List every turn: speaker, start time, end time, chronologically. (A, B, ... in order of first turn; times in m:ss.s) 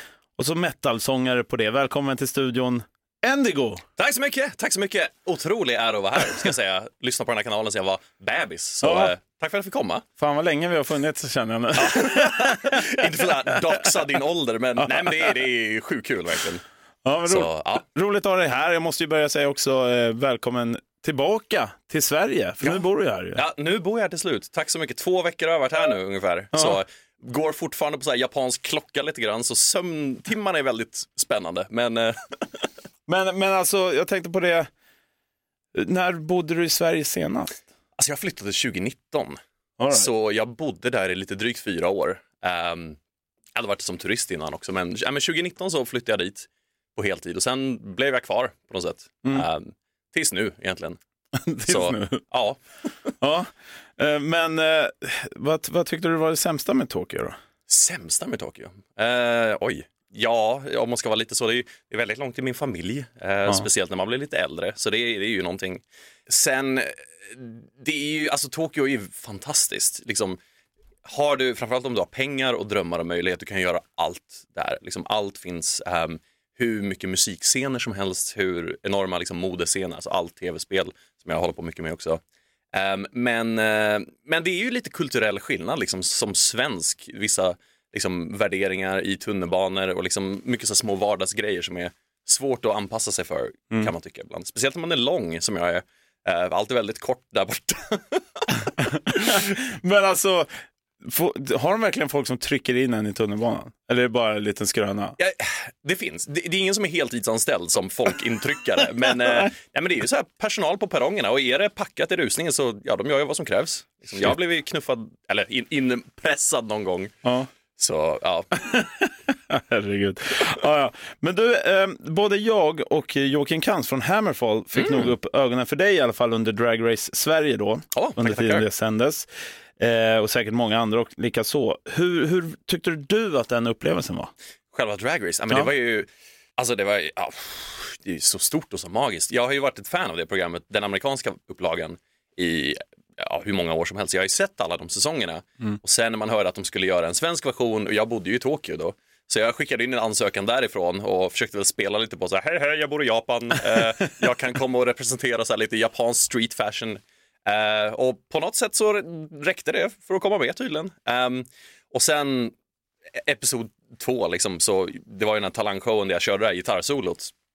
0:00.4-0:03.8 A
0:04.0-0:10.0 B
0:08.8-0:09.1 A
0:10.2-0:12.6 A
0:11.8-0:16.6 B
0:14.8-0:15.2 A
0:17.0-0:23.4 A
0:17.2-0:17.8 B
0:23.4-0:32.1 B
0:26.5-0:26.8 A
0:33.1-0:34.7 A
0:35.7-0:37.6 A
0:38.0-0:39.4 B
0:39.8-0:40.1 A
0:39.9-0:43.0 B
0:43.5-0:51.0 B
0:51.4-0:52.2 A
0:51.6-0:53.1 B
0:53.2-0:57.4 A
0:57.7-1:10.4 B
1:11.0-1:22.2 B
1:22.7-1:38.5 B
1:39.1-1:40.5 A
1:41.0-1:45.2 A
1:45.2-1:57.1 B
1:57.2-1:57.5 A
1:57.8-1:58.5 B
1:58.5-2:09.3 A
2:04.7-2:05.1 B
2:07.9-2:08.6 B
2:09.8-2:14.3 A
2:14.7-2:42.5 B
2:43.2-2:47.3 B